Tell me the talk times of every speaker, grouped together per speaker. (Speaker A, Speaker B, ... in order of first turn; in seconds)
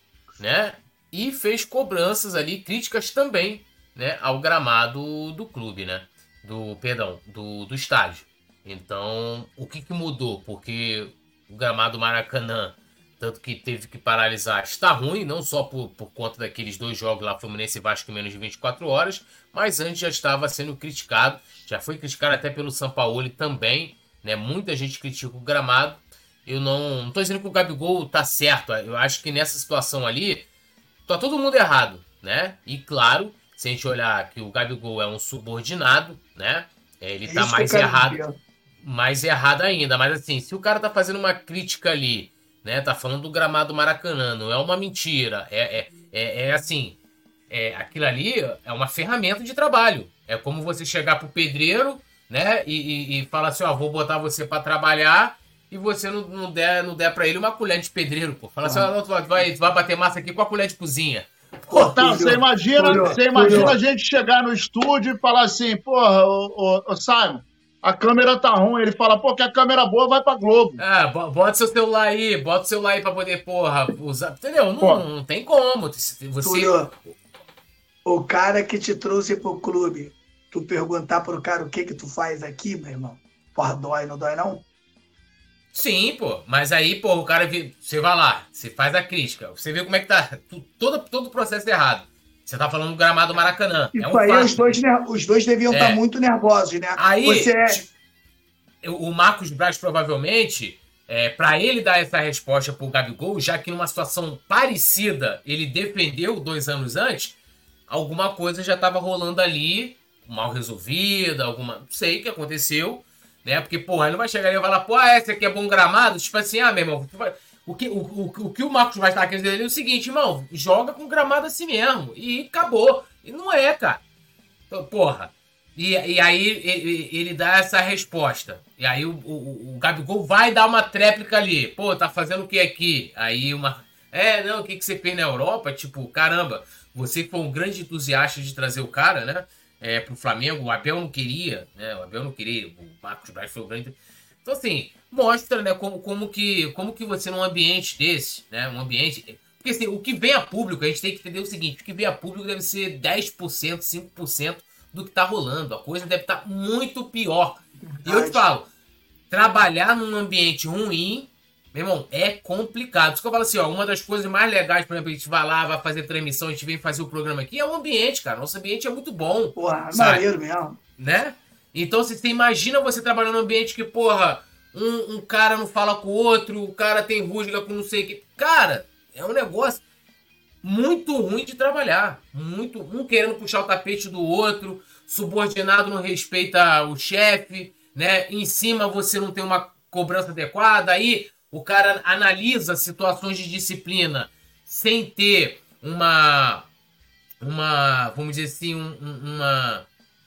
Speaker A: 0.4-30.4, 31.1-38.2, 38.8-47.0, 47.5-62.3, 63.0-63.7, 70.8-77.0, 85.7-94.8, 95.7-96.0, 97.0-97.8, 98.8-107.4, 107.9-124.0, 124.7-158.7, 159.3-170.3, 171.0-179.8, 180.6-196.7, 197.4-199.9
Speaker B: 37.3-38.4, 58.6-58.9, 61.9-63.7, 76.4-76.9, 78.1-84.7, 94.0-97.8, 157.9-158.4, 169.6-170.8
Speaker C: 61.7-70.8